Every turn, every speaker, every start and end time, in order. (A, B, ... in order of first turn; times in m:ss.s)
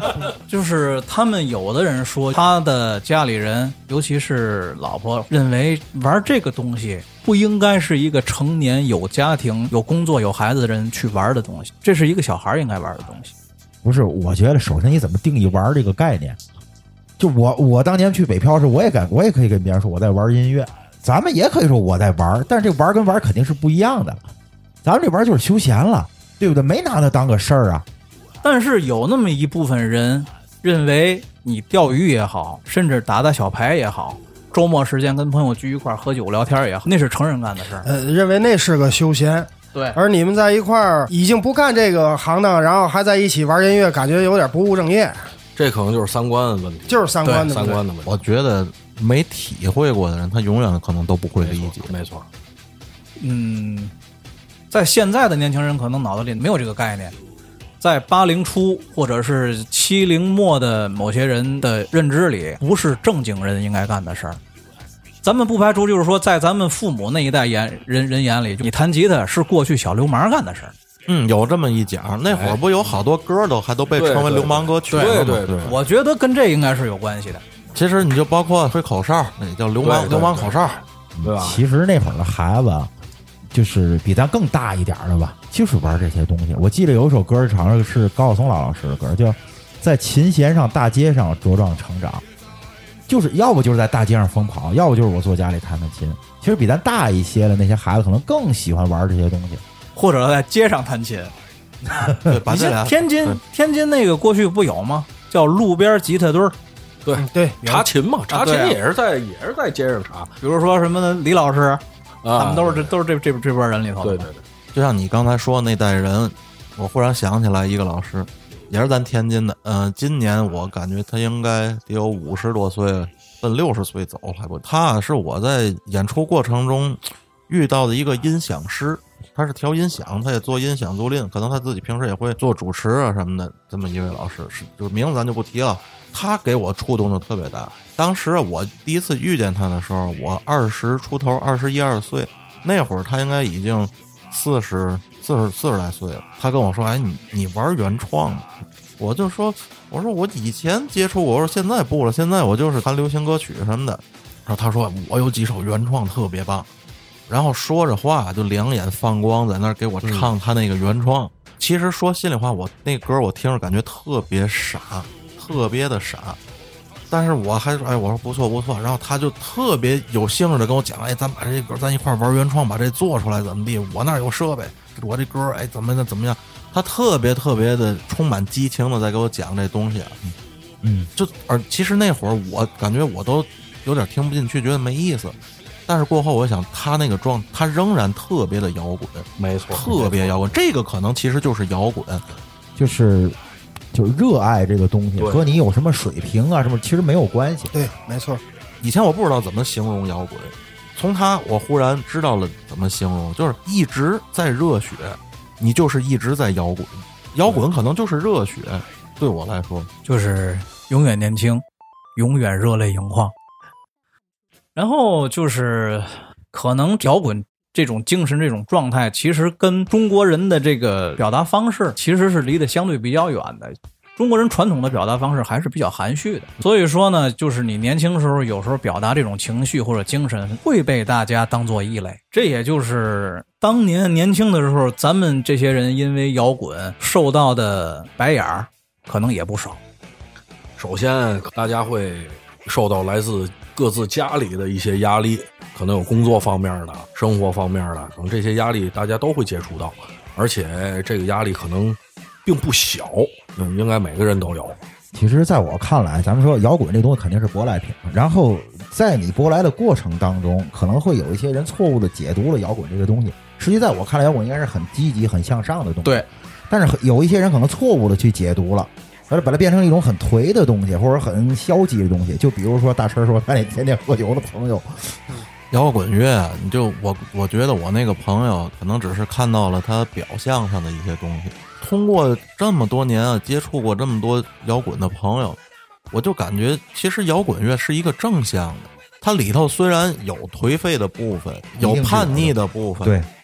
0:00.5-0:13.3 A
0:13.8-0:16.4 B
0:17.2-0:24.2 B
0:24.8-0:27.8 B
0:28.4-0:37.9 A
0:37.8-0:45.3 C
0:39.7-0:40.0 A
0:45.6-0:48.2 D
0:46.9-0:47.8 C
0:48.0-0:51.9 E
0:51.4-0:52.3 D
0:53.2-0:53.9 A
0:54.7-0:57.2 A
0:57.8-1:04.4 A
1:05.2-1:10.7 A
1:11.1-1:15.8 E
1:12.3-1:12.6 D
1:14.0-1:15.8 D
1:14.9-1:17.4 A
1:17.7-1:20.8 E
1:19.8-1:21.6 D
1:21.2-1:22.9 B
1:23.5-1:32.2 B
1:33.1-1:39.6 B
1:39.9-1:41.3 A
1:41.9-1:46.6 A
1:42.2-1:43.4 E
1:47.0-1:50.3 D
1:47.2-1:47.6 C
1:47.6-1:48.8 A
1:50.4-1:51.8 A
1:52.2-1:52.9 D
1:52.4-1:54.3 A
1:54.0-1:54.4 D
1:54.7-2:36.7 E
2:37.3-2:46.4 E
2:40.0-2:40.3 D
2:47.1-3:00.2 E
3:00.2-3:01.1 B
3:01.2-3:05.4 E
3:05.9-3:12.2 E
3:09.4-3:10.3 D
3:12.8-3:13.4 B
3:13.9-3:17.7 B
3:15.2-3:15.4 D
3:17.7-3:18.4 C
3:18.8-3:29.9 E
3:30.0-3:31.6 A
3:32.2-3:33.3 A
3:34.8-3:59.8 A
4:00.8-4:14.8 D
4:15.1-4:35.2 B
4:35.7-4:45.6 E
4:46.1-4:53.2 E
4:51.8-4:53.3 B